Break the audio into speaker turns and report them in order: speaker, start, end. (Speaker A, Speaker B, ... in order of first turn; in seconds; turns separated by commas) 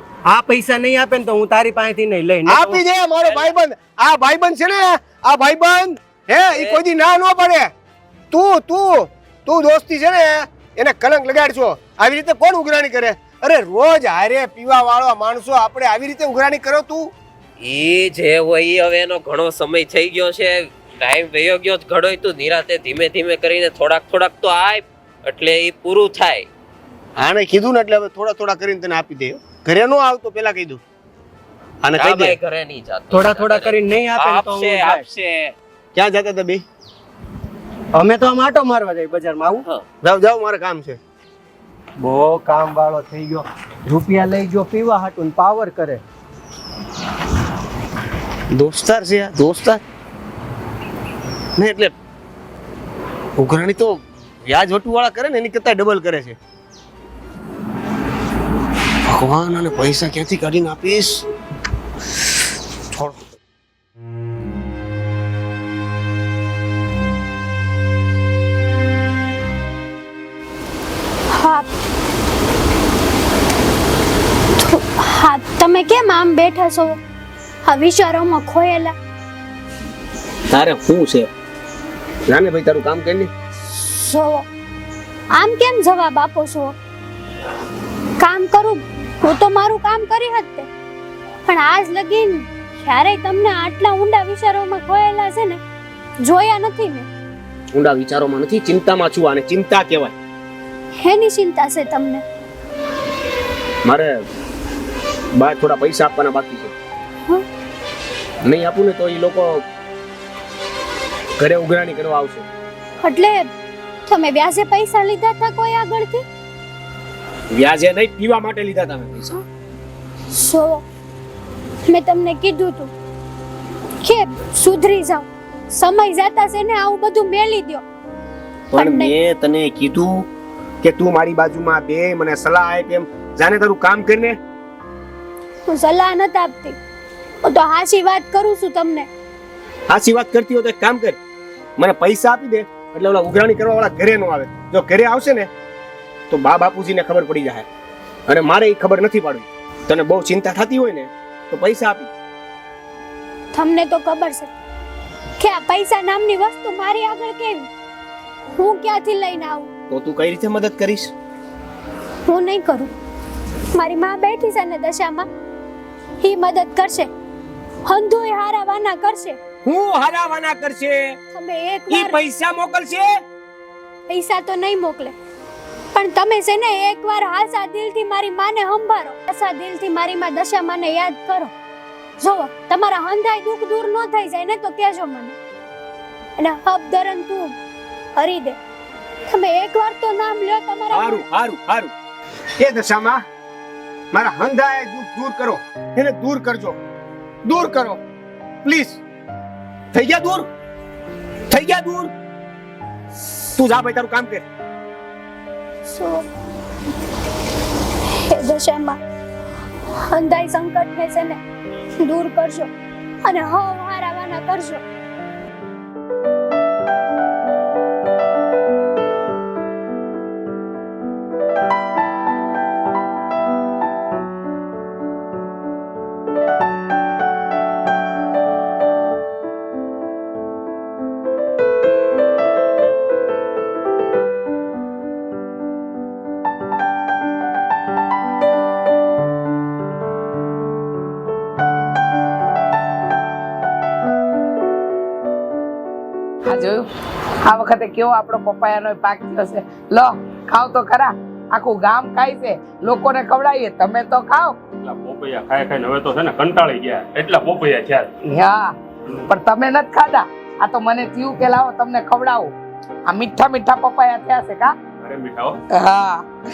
Speaker A: 0.3-2.8, Speaker B: 2.5-7.7, Speaker C: 3.2-3.5, Speaker C: 6.5-6.8, Speaker B: 8.3-17.1, Speaker C: 17.6-26.5, Speaker B: 27.2-30.8, Speaker B: 31.8-32.4, Speaker C: 31.9-35.5, Speaker A: 33.1-35.1, Speaker B: 36.0-36.6, Speaker A: 38.0-39.7, Speaker B: 40.0-41.0, Speaker A: 42.0-46.0, Speaker B: 48.5-49.8, Speaker B: 51.6-51.9, Speaker B: 53.4-56.4, Speaker B: 59.1-61.1, Speaker B: 62.9-63.4, Speaker D: 71.3-71.7, Speaker D: 74.6-77.0, Speaker D: 77.7-78.9, Speaker B: 80.5-81.3, Speaker B: 82.3-83.3, Speaker D: 83.8-84.5, Speaker D: 85.4-86.8, Speaker D: 88.2-90.7, Speaker D: 91.5-95.6, Speaker D: 96.2-97.1, Speaker B: 97.8-100.2, Speaker D: 101.0-102.2, Speaker B: 103.8-104.1, Speaker B: 105.4-106.7, Speaker B: 108.4-109.6, Speaker B: 111.4-112.5, Speaker D: 113.0-113.5, Speaker D: 114.1-116.2, Speaker B: 117.5-119.4, Speaker D: 120.3-120.8, Speaker D: 121.9-122.9, Speaker D: 124.0-127.8, Speaker D: 128.7-129.2, Speaker B: 128.7-130.3, Speaker B: 130.8-134.4, Speaker D: 135.7-136.8, Speaker D: 137.4-139.1, Speaker B: 139.9-141.2, Speaker B: 141.8-145.5, Speaker B: 146.3-147.7, Speaker B: 148.3-152.1, Speaker D: 153.5-154.5, Speaker D: 155.4-157.7, Speaker D: 158.6-159.7, Speaker B: 159.9-161.1, Speaker D: 162.3-162.9, Speaker D: 163.8-165.3, Speaker D: 166.2-167.1, Speaker D: 167.9-169.4, Speaker B: 169.7-171.2, Speaker D: 171.3-172.2, Speaker B: 171.9-173.1, Speaker D: 174.1-175.2, Speaker D: 175.9-181.5, Speaker D: 182.2-185.4, Speaker D: 186.4-187.6, Speaker D: 188.2-188.6, Speaker D: 189.3-191.3, Speaker B: 190.9-191.9, Speaker B: 192.6-193.2, Speaker B: 194.1-196.8, Speaker B: 197.5-198.0, Speaker B: 198.6-199.0, Speaker B: 199.9-200.5, Speaker B: 201.5-202.1, Speaker B: 203.6-204.4, Speaker D: 205.9-206.3, Speaker D: 208.1-209.0, Speaker D: 210.1-211.4, Speaker D: 212.0-212.7, Speaker D: 213.2-214.8, Speaker E: 246.5-246.9, Speaker E: 247.4-254.6, Speaker F: 254.8-258.1, Speaker E: 258.3-258.8, Speaker E: 259.3-262.5, Speaker E: 263.1-264.8, Speaker F: 265.0-265.6, Speaker E: 265.7-266.3